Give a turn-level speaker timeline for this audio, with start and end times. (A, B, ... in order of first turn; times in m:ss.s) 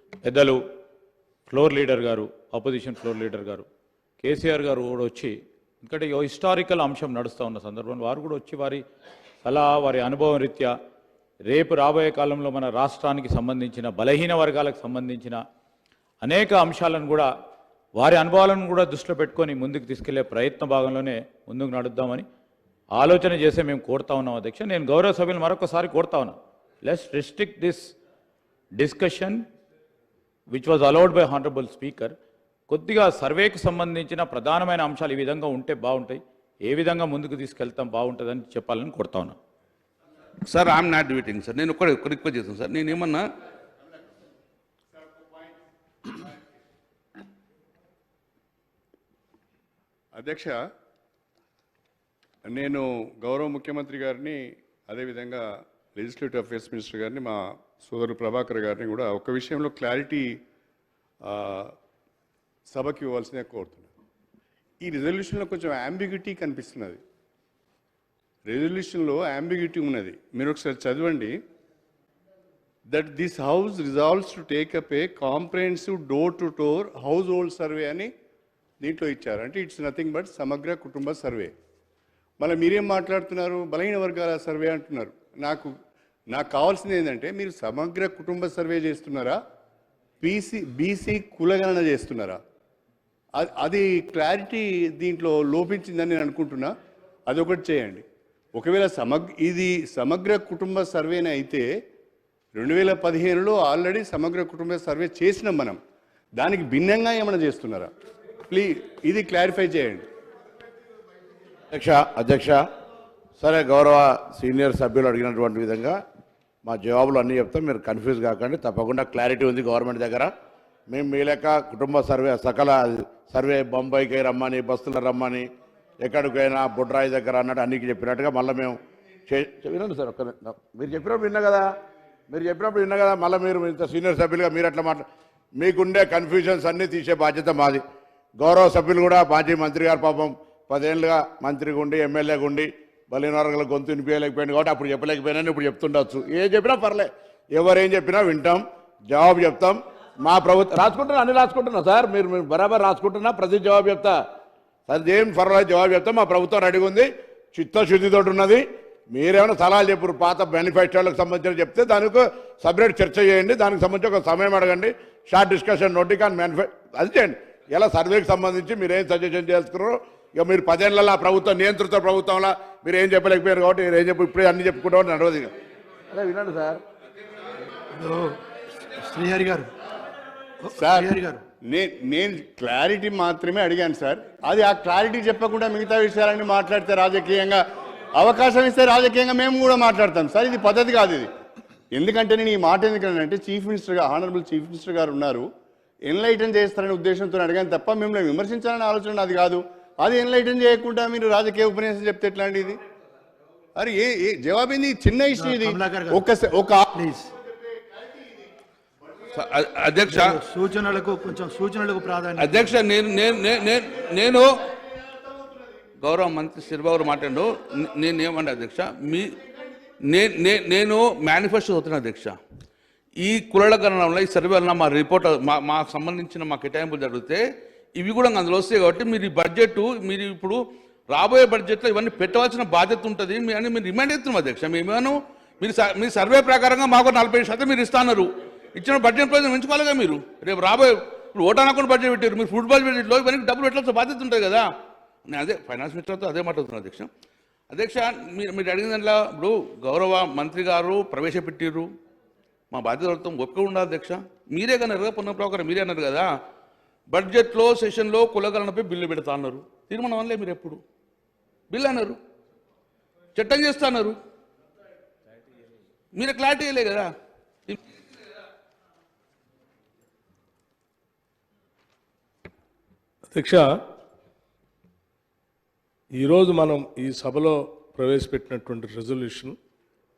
0:00.2-0:00.6 A
0:01.5-0:03.7 A
0:04.2-0:08.8 A
0:09.4-0:10.7 A
0:11.5-0:15.4 A
0:16.2-0:17.3 A
0:18.0-0:22.3 A
0:23.0-0:27.9 A
0:28.8-0:29.4 A
0:30.5-0:32.2 A
0:32.7-0:39.4 A
0:40.5-0:43.2 B
0:50.1-0:50.6 C
0:52.4-1:00.4 C
1:01.2-1:01.7 C
1:02.7-1:03.9 C
1:04.8-1:07.0 C
1:08.5-1:11.4 C
1:12.9-1:18.1 C
1:18.8-1:21.5 C
1:22.4-1:25.8 C
1:26.3-1:29.4 C
1:30.2-1:32.4 C
1:33.4-1:36.7 C
1:37.3-1:41.7 C
1:42.6-1:45.8 C
1:46.4-1:47.9 C
1:48.5-1:50.1 C
1:51.7-1:52.6 D
1:53.4-1:56.0 D
1:56.6-2:00.3 D
2:00.9-2:05.5 D
2:06.0-2:11.7 D
2:12.3-2:15.1 D
2:15.6-2:17.8 D
2:18.4-2:34.2 D
2:34.9-2:55.5 D
2:56.1-2:56.8 D
2:58.0-2:58.4 E
2:58.9-2:59.7 E
3:00.6-3:01.4 E
3:00.7-3:07.6 C
3:08.2-3:11.3 C
3:11.9-3:15.5 C
3:16.1-3:22.8 C
3:23.8-3:27.0 C
3:25.4-3:26.2 E
3:27.0-3:27.3 E
3:29.3-3:30.4 B
3:30.1-3:32.7 E
3:32.4-3:34.5 B
3:36.0-3:39.4 B
3:40.0-3:42.4 B
3:43.2-3:47.4 B
3:48.0-3:50.6 B
3:51.1-4:04.7 B
4:05.3-4:07.1 B
4:07.7-4:11.9 B
4:12.7-4:16.3 B
4:17.1-4:20.8 B
4:21.7-4:22.2 B
4:23.4-4:24.2 B
4:26.2-4:27.1 B
4:33.3-4:33.6 F
4:36.2-4:39.6 F